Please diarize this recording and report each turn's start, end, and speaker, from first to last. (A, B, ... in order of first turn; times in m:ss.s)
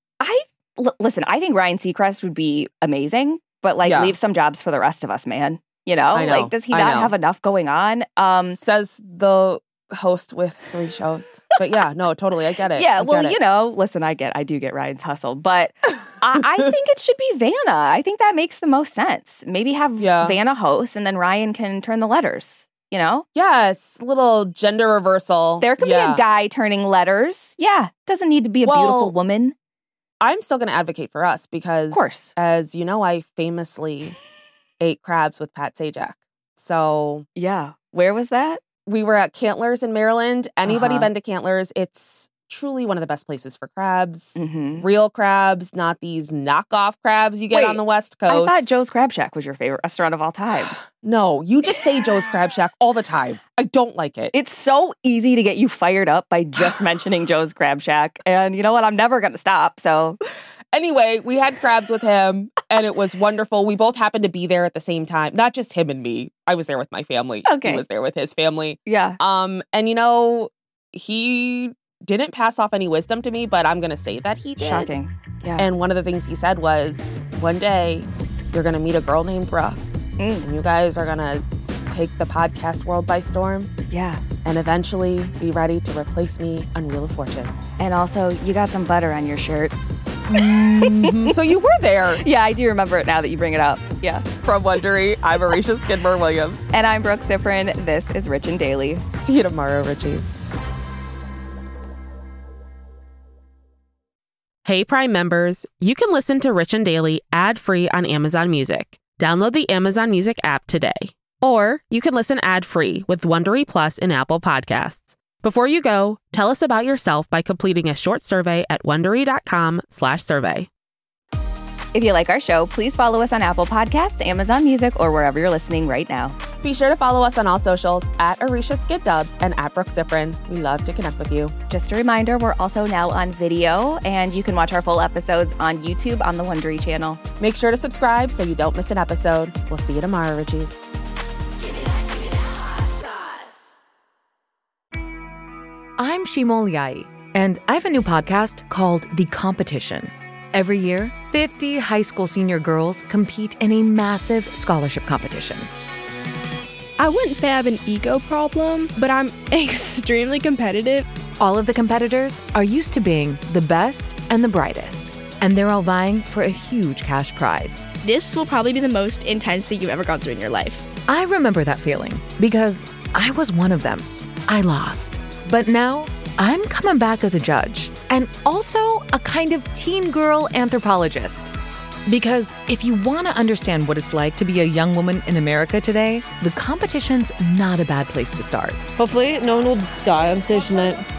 0:00.2-0:08.6 A
0:03.8-0:04.2 B
0:06.1-0:07.1 B
0:08.5-0:13.4 B
0:12.8-0:23.2 A
0:20.0-0:20.4 B
0:23.4-0:26.2 B
0:25.6-0:29.6 A
0:28.6-0:29.1 B
0:30.2-0:34.2 B
0:31.9-0:32.3 A
0:34.8-0:37.2 B
0:37.4-0:38.6 A
0:38.9-0:48.7 B
0:40.6-0:41.1 A
0:44.4-0:44.8 A
0:47.5-0:50.8 A
0:50.9-0:54.3 B
0:54.3-1:00.2 A
1:00.7-1:14.9 B
1:07.5-1:07.8 A
1:08.9-1:09.2 A
1:14.6-1:15.7 A
1:15.6-1:19.8 B
1:20.2-1:20.5 A
1:20.4-1:23.7 B
1:23.9-1:24.2 A
1:24.4-1:27.6 B
1:27.8-1:29.7 A
1:30.3-1:32.2 B
1:30.3-1:31.4 A
1:32.2-1:34.3 A
1:34.4-1:36.7 B
1:36.7-1:39.0 A
1:39.1-1:40.3 B
1:44.6-2:00.7 B
2:01.9-2:06.4 A
2:06.6-2:11.6 B
2:11.7-2:17.2 A
2:17.4-2:20.9 B
2:26.0-2:35.7 C
2:37.0-2:41.1 D
2:41.4-2:47.9 C
2:48.0-2:50.8 D
2:49.1-2:50.6 E
2:51.1-3:01.5 C
3:02.1-3:08.8 C
3:09.0-3:11.0 E